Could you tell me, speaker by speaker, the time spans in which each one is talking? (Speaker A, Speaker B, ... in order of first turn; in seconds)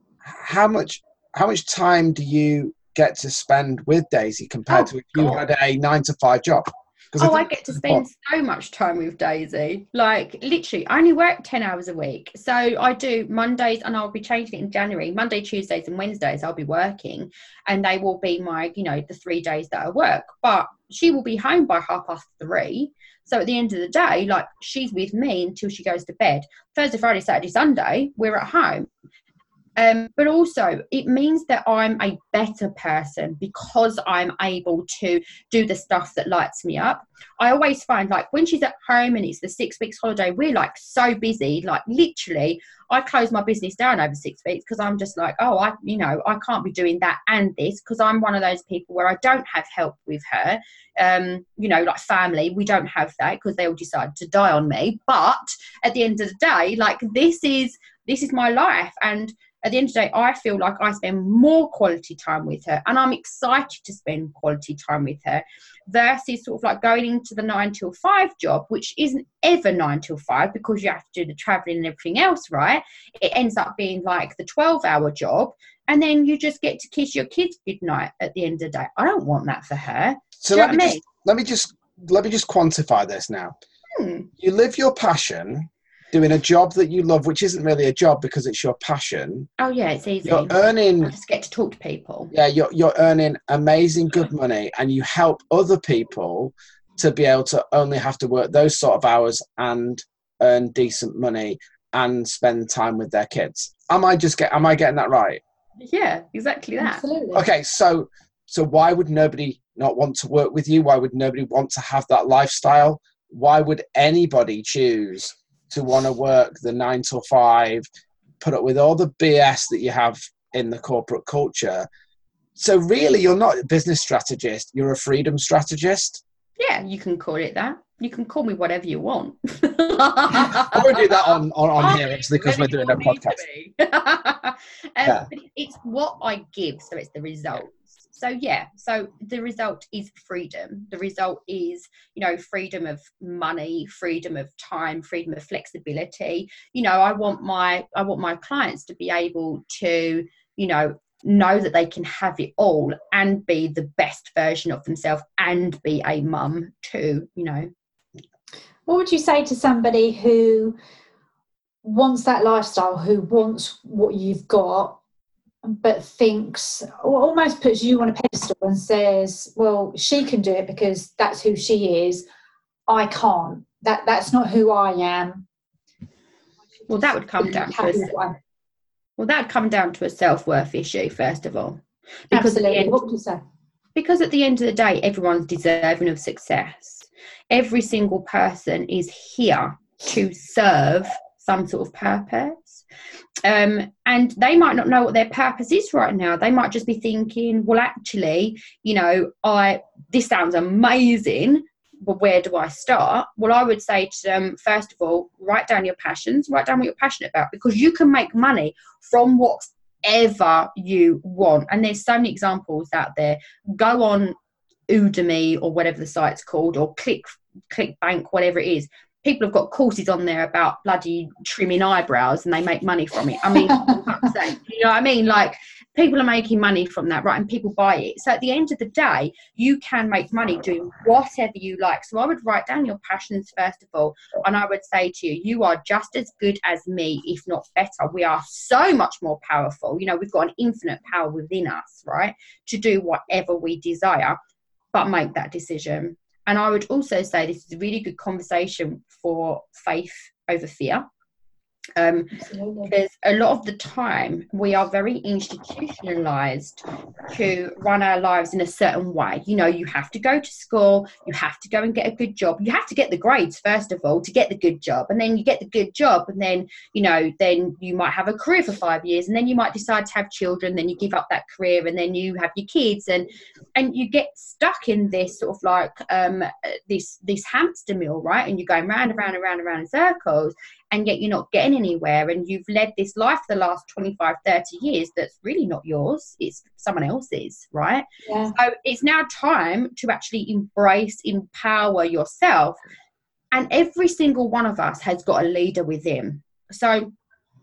Speaker A: 0.2-8.0, 80.4-83.5, 84.4-89.5, 90.2-91.1, 92.3-105.4, 107.3-117.8, 118.4-121.9, 122.5-126.2, 130.5-133.4
Speaker B: 4.7-5.4, 7.2-28.9, 29.8-81.0, 83.9-84.3, 89.6-92.3, 105.8-107.0, 126.6-157.7, 176.9-178.2, 179.2-182.9, 183.9-192.8, 193.4-214.3, 214.9-244.4, 244.9-251.1, 252.0-252.4, 252.9-292.8, 293.5-297.1
Speaker C: 106.8-107.4, 158.9-160.8, 161.8-165.0, 165.6-172.2, 172.9-175.4, 176.9-178.4, 182.3-183.4, 223.6-224.3, 252.3-252.9, 288.2-288.6